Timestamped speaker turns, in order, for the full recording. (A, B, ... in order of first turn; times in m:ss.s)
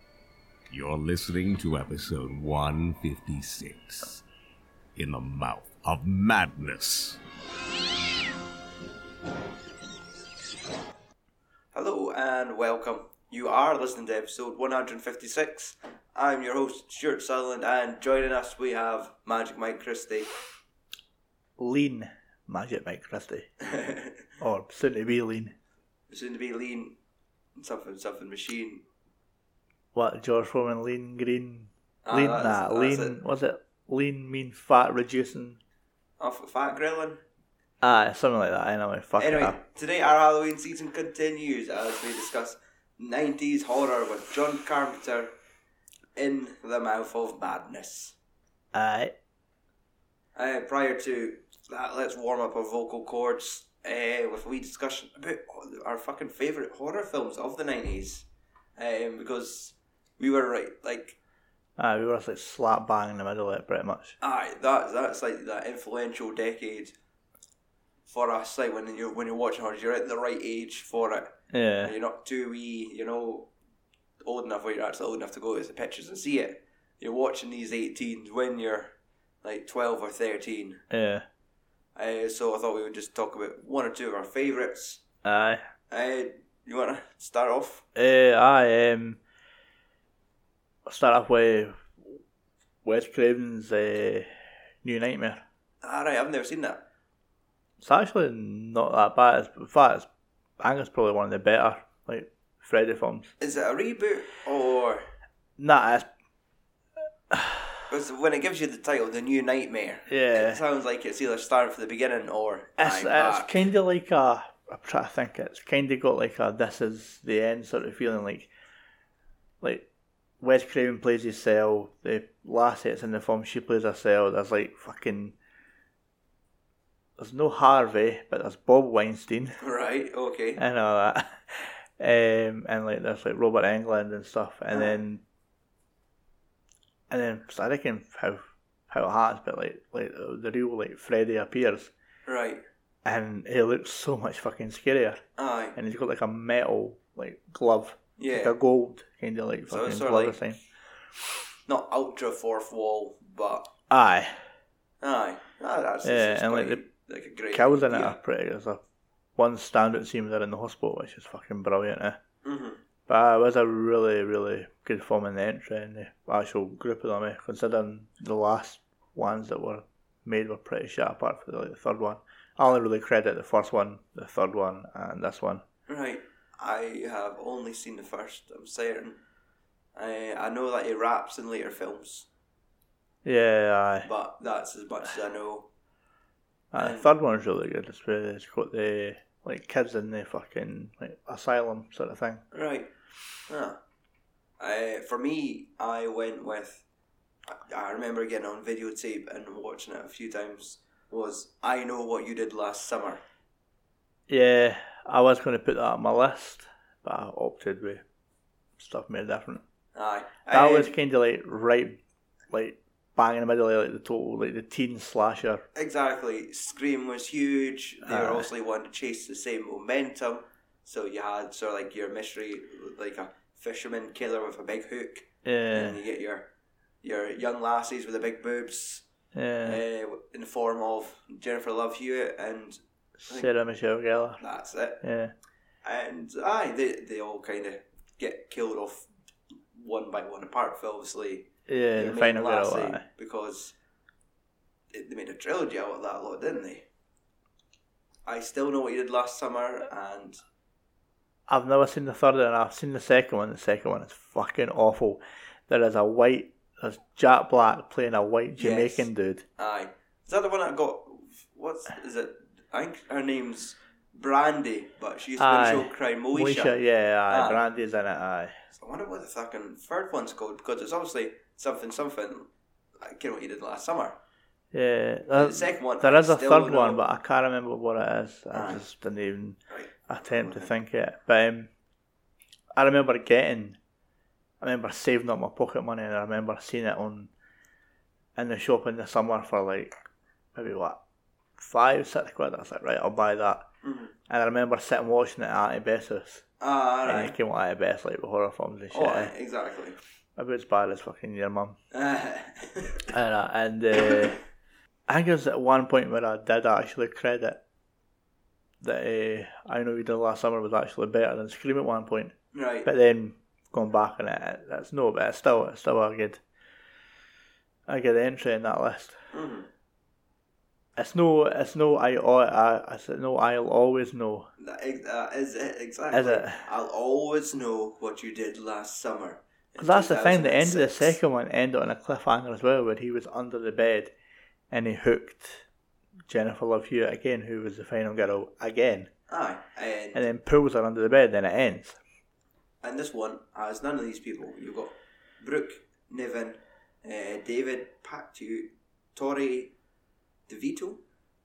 0:00.7-0:04.2 A
0:05.0-0:07.2 A
0:11.7-0:20.3 B
0:21.6-0:23.5 C
0:23.6-0:24.2 B
0:24.4-0:25.6 C
0:26.1-0:27.0 B
0:27.6-0:28.8 B
0:30.0-0:35.6 C
0:32.0-0:33.2 B
0:36.2-0:37.2 B
0:37.8-0:39.6 C
0:39.2-0:45.3 B
0:46.2-0:48.2 B
0:48.7-0:49.1 C
0:50.4-1:01.2 B
1:01.8-1:04.2 C
1:04.2-1:07.0 B
1:08.1-1:13.5 B
1:11.5-1:11.9 C
1:14.2-1:20.8 B
1:20.9-1:21.2 C
1:22.0-1:25.0 B
1:25.2-1:25.6 C
1:25.9-1:27.8 B
1:28.0-1:29.2 C
1:30.9-1:32.2 C
1:32.8-1:34.3 C
1:34.8-1:35.4 C
1:35.8-1:36.8 B
1:37.8-1:40.1 C
1:40.6-1:43.3 C
1:43.4-1:45.0 B
1:45.6-1:46.1 C
1:47.3-1:47.8 C
1:47.9-1:53.5 B
1:50.1-1:50.6 C
1:52.8-1:58.5 C
1:59.6-1:59.9 C
2:00.4-2:05.4 C
2:07.2-2:09.6 C
2:09.6-2:10.6 B
2:10.6-2:15.2 C
2:14.7-2:15.0 B
2:17.1-2:21.9 C
2:22.3-2:22.6 B
2:23.0-2:25.2 C
2:25.4-2:25.8 B
2:25.8-2:30.6 C
2:28.2-2:28.6 B
2:29.7-2:30.4 B
2:31.7-2:33.7 B
2:33.9-2:34.4 C
2:35.0-2:38.2 B
2:36.0-2:36.8 C
2:37.5-2:38.8 C
2:39.4-2:42.2 C
2:42.4-2:42.8 B
2:43.1-2:55.6 C
2:55.9-2:59.2 B
3:00.0-3:02.3 B
3:03.2-3:04.1 C
3:04.0-3:05.7 B
3:06.7-3:12.4 C
3:06.8-3:07.1 B
3:12.5-3:12.9 B
3:13.5-3:13.8 B
3:14.6-3:16.8 B
3:17.5-3:23.2 B
3:24.3-3:28.0 C
3:28.8-3:29.6 C
3:30.0-3:31.0 B
3:30.5-3:35.6 C
3:35.8-3:46.5 B
3:38.0-3:38.5 C
3:45.4-3:46.0 C
3:47.0-3:49.0 B
3:49.3-3:49.8 C
3:49.7-3:53.5 B
3:53.2-3:54.4 C
3:54.4-3:55.0 B
3:55.0-3:55.3 C
3:55.8-3:59.1 B
3:59.7-4:03.8 B
4:01.7-4:03.0 C
4:04.9-4:06.9 B
4:08.3-4:10.4 B
4:11.5-4:19.4 C
4:18.6-4:27.6 B
4:25.4-4:28.5 C
4:28.8-4:32.5 B
4:33.0-4:34.2 B
4:34.7-4:41.7 C
4:35.3-4:37.0 B
4:38.5-4:38.8 B
4:39.7-4:40.7 B
4:42.8-4:43.8 C
4:44.6-4:47.3 C
4:48.4-4:50.0 C
4:50.5-4:51.0 C
4:51.6-4:53.7 C
4:53.8-4:54.1 B
4:54.3-4:56.4 C
4:56.6-4:57.4 B
4:57.1-4:59.3 C
4:58.9-5:00.0 B
5:00.4-5:01.8 C
5:01.9-5:03.1 B
5:03.1-5:04.4 C
5:05.1-5:07.6 C
5:08.8-5:16.4 C
5:12.5-5:12.9 B
5:17.9-5:19.2 C
5:19.3-5:19.7 B
5:21.0-5:24.5 C
5:24.6-5:31.2 B
5:26.1-5:26.6 C
5:29.8-5:34.1 C
5:34.7-5:35.7 C
5:36.3-5:39.1 C
5:39.3-5:40.3 B
5:40.1-5:42.0 C
5:42.8-5:49.7 B
5:50.5-5:51.0 B